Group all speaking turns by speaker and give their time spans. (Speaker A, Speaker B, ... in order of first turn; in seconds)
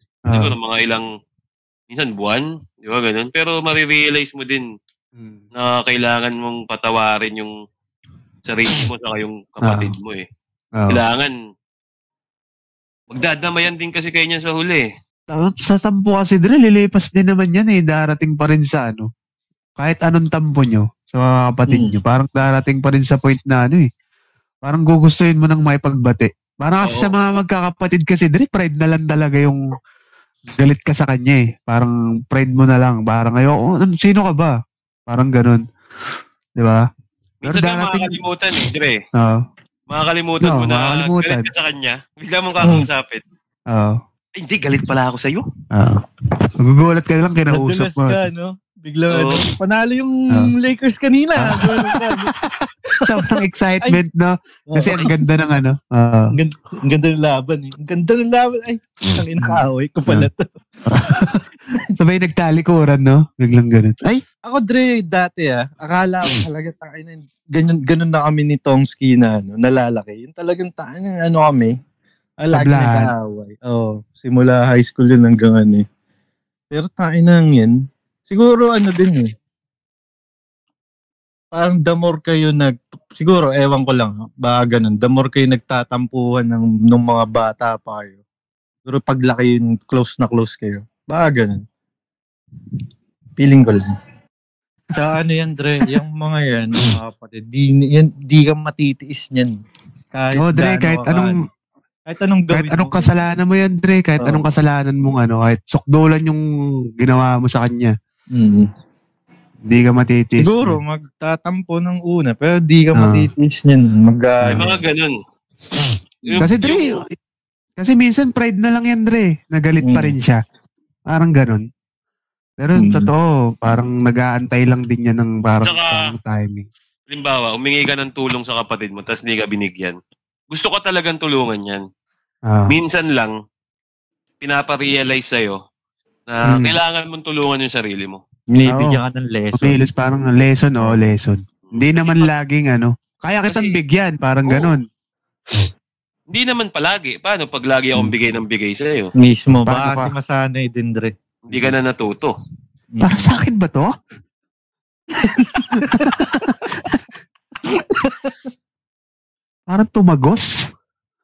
Speaker A: 0.3-0.6, 5.2-5.4, 9.6-9.9, 15.3-19.1, 19.8-23.9, 24.6-29.6, 30.6-34.5, 35.1-35.6, 36.6-36.9, 37.4-38.1, 39.2-39.4, 40.4-41.5, 43.7-44.0, 45.7-46.0, 46.6-48.2, 51.4-56.3, 59.4-60.3, 60.9-64.2, 72.5-73.1, 100.3-101.4, 102.5-106.4, 107.0-108.0, 109.7-110.8, 113.0-113.3, 116.4-117.1, 117.8-120.4, 121.1-121.7, 122.6-126.7, 132.5-132.7, 136.5-136.8, 138.7-139.0, 139.5-144.8, 149.5-150.1, 153.0-153.9, 155.8-157.0, 159.7-160.7
Speaker B: 0.3-1.0, 1.9-4.7, 5.5-7.5, 8.5-10.3, 10.9-11.3, 13.1-14.8, 26.8-27.1, 37.4-39.0, 39.9-43.2, 44.4-45.5, 49.1-49.4, 114.6-115.2, 116.2-117.0, 125.6-126.1, 127.1-130.0, 130.5-131.8, 132.7-133.3, 134.4-135.6, 136.3-138.2, 141.7-142.3, 143.5-143.8, 144.4-144.7, 146.3-149.1, 151.5-152.3
Speaker C: 21.7-21.9, 47.5-52.3, 53.0-53.3, 54.7-55.2, 56.3-60.5, 64.5-71.8, 72.4-75.8, 76.7-77.7, 78.3-79.3, 81.5-88.2, 88.9-91.6, 93.4-93.9, 95.0-99.5, 100.1-101.3, 102.1-103.1, 108.3-108.7, 110.4-114.8, 119.8-120.1, 122.8-123.1, 138.5-139.8, 149.2-151.1, 152.9-153.3, 155.2-156.2, 157.7-158.3